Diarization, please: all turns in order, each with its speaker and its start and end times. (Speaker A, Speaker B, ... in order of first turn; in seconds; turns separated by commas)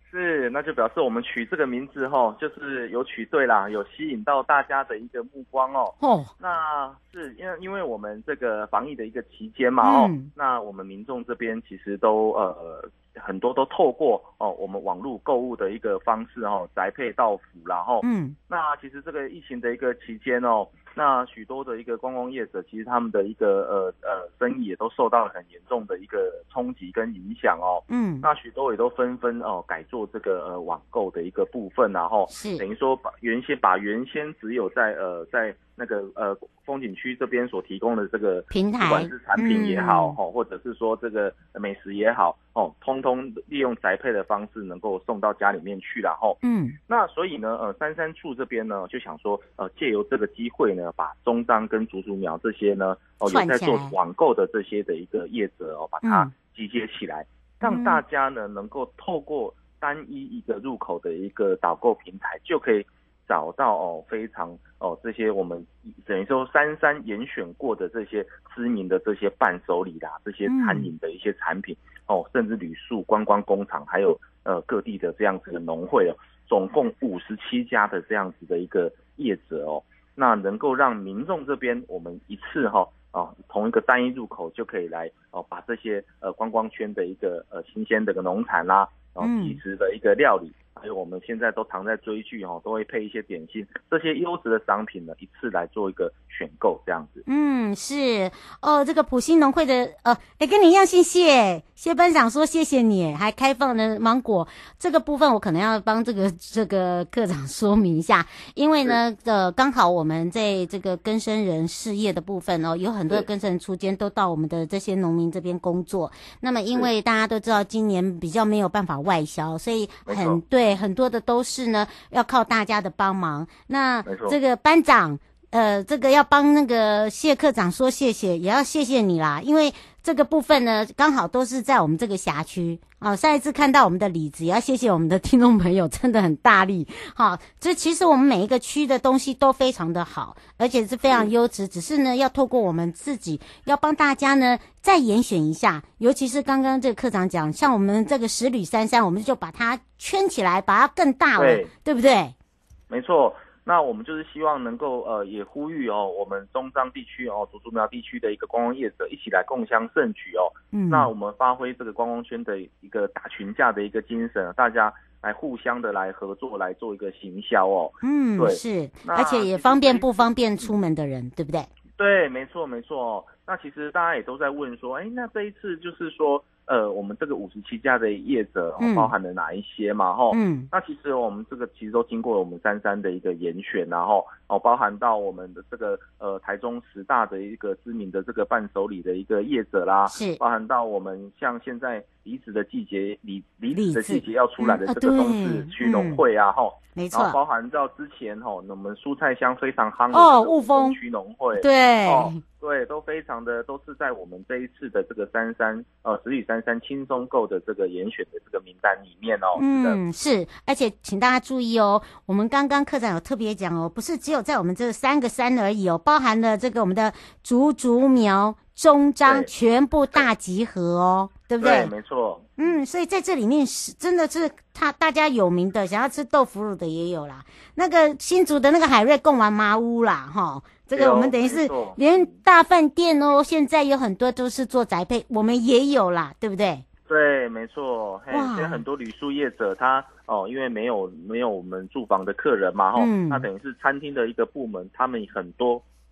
Speaker A: 0.1-97.2, Speaker B: 6.0-6.3, Speaker B: 9.8-10.3, Speaker B: 18.0-18.4, Speaker B: 27.9-28.3, Speaker B: 32.3-32.6, Speaker B: 38.5-40.2, Speaker B: 46.4-46.8, Speaker B: 53.3-54.0, Speaker B: 56.0-56.3, Speaker B: 57.6-58.0, Speaker B: 70.5-70.9, Speaker B: 89.2-89.6, Speaker B: 97.3-152.3, Speaker A: 120.1-120.4, Speaker A: 124.1-124.4, Speaker A: 151.4-151.7, Speaker A: 152.9-170.2, Speaker B: 160.7-161.1, Speaker B: 168.0-171.7, Speaker A: 172.0-210.0, Speaker B: 178.8-179.1, Speaker B: 180.3-180.7, Speaker B: 190.1-190.4, Speaker B: 193.7-196.2, Speaker B: 197.0-197.4, Speaker B: 200.1-201.0, Speaker B: 201.6-202.4, Speaker B: 209.6-221.9, Speaker A: 219.2-219.5, Speaker A: 221.6-222.8, Speaker B: 222.6-236.8, Speaker A: 230.9-232.3, Speaker A: 237.1-245.8, Speaker B: 238.3-238.8, Speaker B: 243.0-243.5